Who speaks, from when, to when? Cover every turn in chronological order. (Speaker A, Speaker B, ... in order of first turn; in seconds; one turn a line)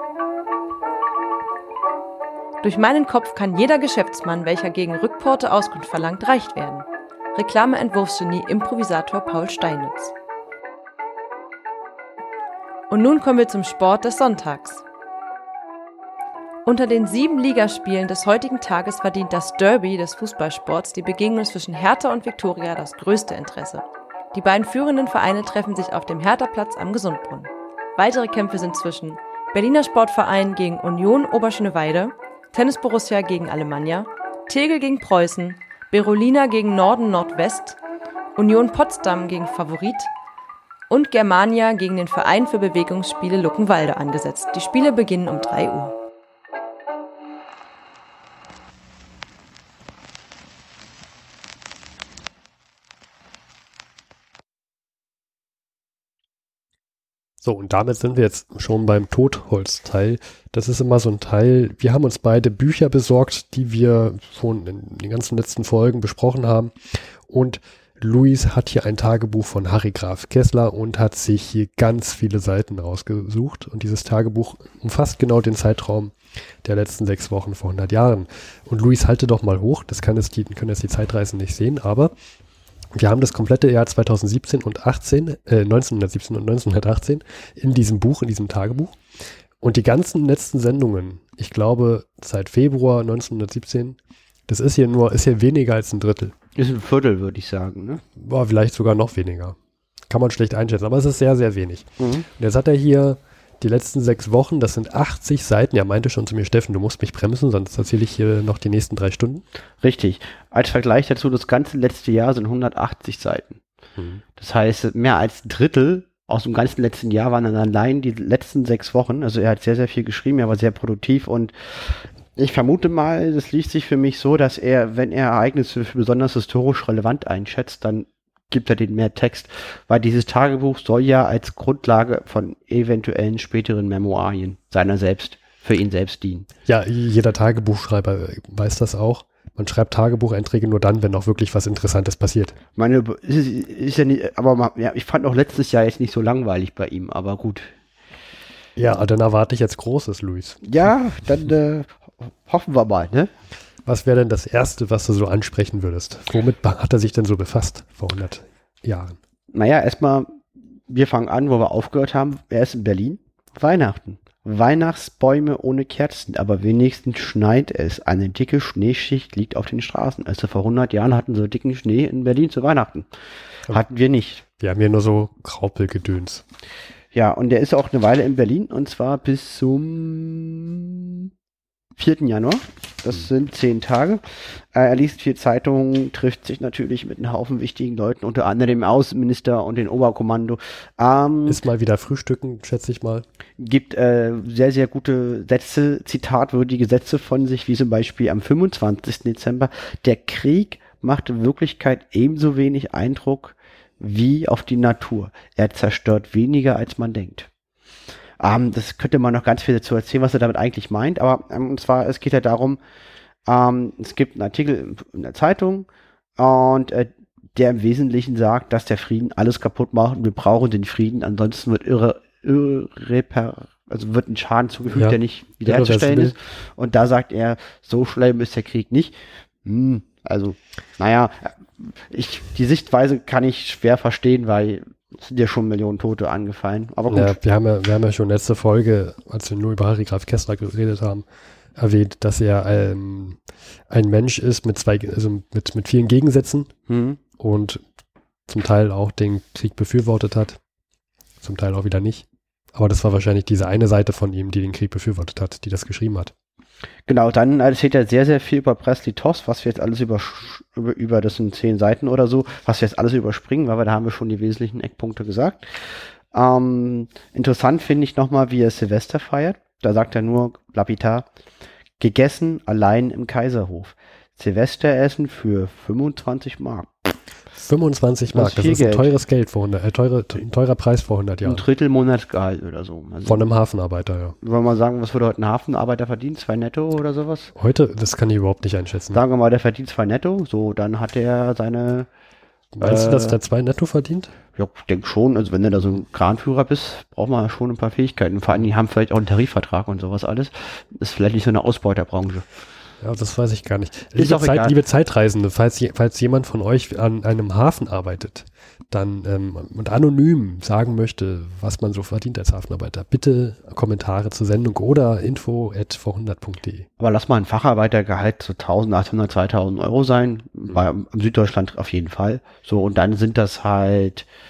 Speaker A: 2.6-10.1
Speaker A: 12.9-14.8
Speaker A: 16.6-37.8
Speaker A: 38.4-40.1
Speaker A: 40.9-45.9
Speaker B: 57.4-82.1
Speaker B: 82.9-89.0
Speaker B: 89.6-96.3
Speaker C: 96.5-98.0
Speaker B: 98.2-99.6
Speaker B: 100.1-109.4
Speaker C: 102.0-102.3
Speaker C: 109.8-113.6
Speaker B: 114.0-114.2
Speaker C: 114.4-136.5
Speaker B: 136.7-142.6
Speaker C: 142.8-147.7
Speaker B: 148.8-150.6
Speaker C: 150.6-153.3
Speaker B: 153.8-159.2
Speaker C: 159.5-160.3
Speaker C: 160.9-173.1
Speaker C: 173.7-174.4
Speaker B: 174.6-176.4
Speaker C: 177.1-181.3
Speaker C: 182.0-184.2
Speaker C: 184.7-191.6
Speaker B: 191.4-193.2
Speaker C: 193.6-207.5
Speaker C: 208.4-212.8
Speaker C: 213.5-215.9
Speaker C: 216.4-237.4
Speaker B: 224.9-226.3
Speaker B: 237.1-246.7
Speaker C: 246.9-247.2
Speaker B: 247.4-247.8
Speaker B: 248.5-250.6
Speaker B: 251.4-256.3
Speaker C: 257.1-271.2
Speaker C: 272.0-277.1
Speaker B: 277.5-281.6
Speaker C: 278.3-279.1
Speaker C: 281.4-283.4
Speaker B: 283.2-284.4
Speaker C: 284.4-287.5
Speaker B: 287.5-289.2
Speaker C: 289.1-292.1
Speaker B: 292.7-294.3
Speaker C: 292.8-293.4
Speaker C: 294.6-302.5
Speaker B: 303.0-316.9
Speaker C: 304.1-304.8
Speaker C: 317.0-324.2